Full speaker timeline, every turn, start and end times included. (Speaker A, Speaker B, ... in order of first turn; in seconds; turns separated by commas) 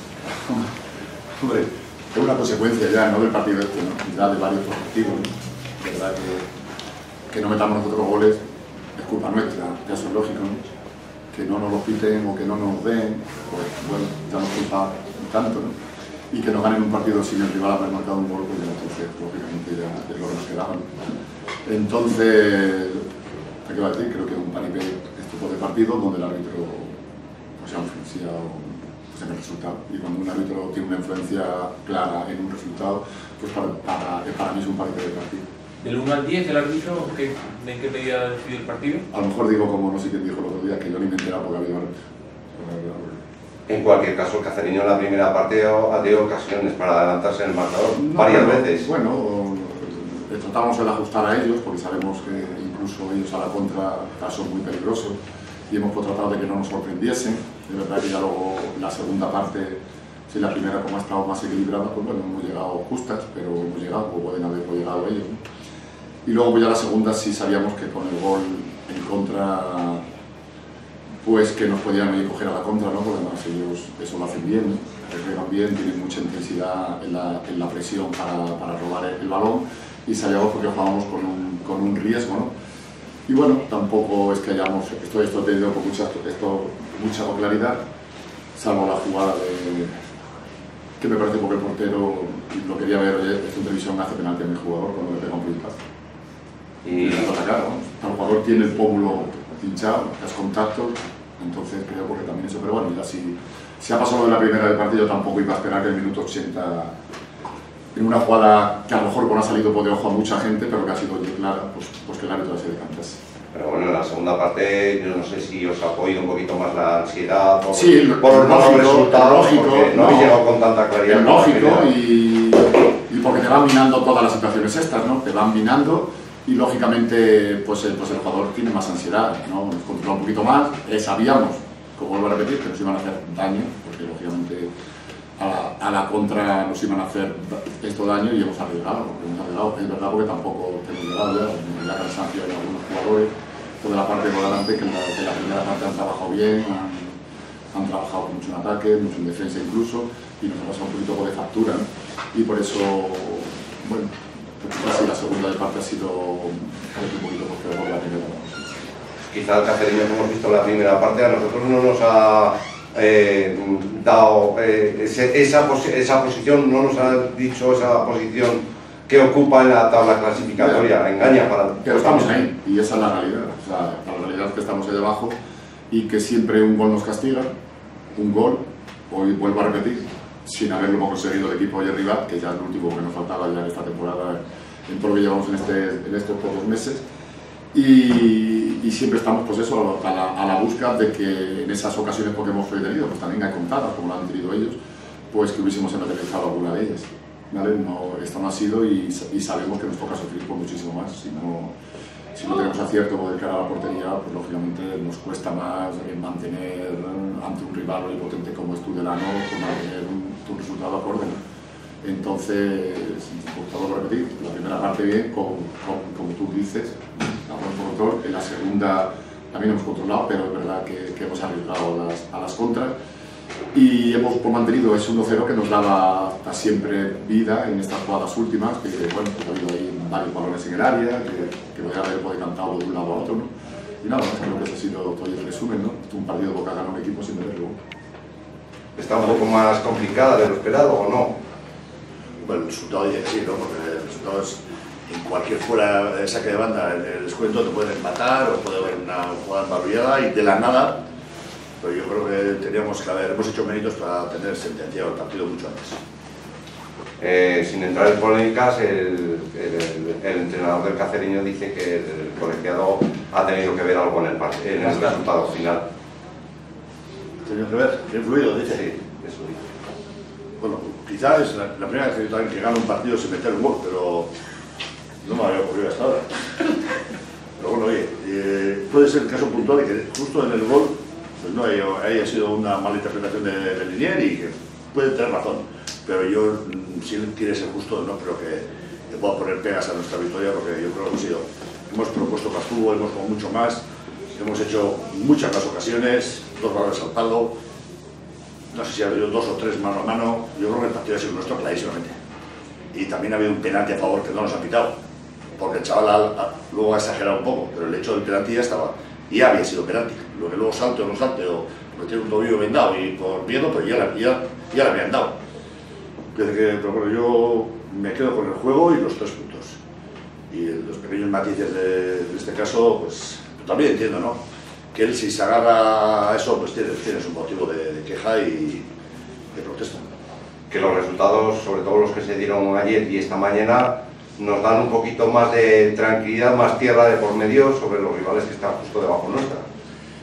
Speaker A: 0.3-0.7, Speaker A: 1.4-6.5, Speaker A: 7.3-8.4, Speaker A: 8.9-10.6, Speaker A: 11.3-15.7, Speaker A: 16.3-21.1, Speaker A: 21.6-23.0, Speaker A: 23.6-27.0, Speaker A: 27.6-35.4, Speaker B: 35.8-39.0, Speaker A: 39.1-41.9, Speaker A: 42.5-43.2, Speaker C: 43.7-48.9, Speaker A: 47.9-55.2, Speaker A: 55.7-65.4, Speaker A: 66.2-70.0, Speaker A: 71.2-82.5, Speaker A: 83.3-87.8, Speaker A: 88.5-89.9, Speaker A: 91.0-95.8, Speaker C: 96.8-97.2, Speaker A: 97.0-106.9, Speaker A: 107.9-113.2, Speaker C: 113.5-121.9, Speaker A: 117.7-120.4, Speaker A: 121.0-134.7, Speaker A: 135.4-147.2, Speaker A: 147.7-158.8, Speaker C: 159.2-172.4, Speaker A: 170.4-175.4, Speaker A: 175.9-177.5, Speaker A: 178.1-187.0, Speaker A: 187.7-194.8, Speaker A: 195.3-201.7, Speaker A: 202.3-211.4, Speaker A: 212.0-222.9, Speaker A: 223.7-237.8, Speaker C: 238.9-241.4, Speaker D: 242.4-251.0, Speaker D: 251.8-256.0, Speaker C: 257.2-265.8, Speaker B: 264.9-265.1, Speaker D: 267.4-268.9, Speaker C: 268.7-269.6, Speaker D: 270.6-274.3, Speaker D: 275.2-276.7, Speaker D: 277.6-297.5, Speaker D: 298.7-302.1, Speaker D: 302.9-304.9, Speaker D: 305.6-315.4, Speaker D: 316.3-319.8, Speaker D: 320.5-324.4, Speaker D: 324.9-328.9, Speaker D: 329.5-330.0, Speaker C: 330.7-339.6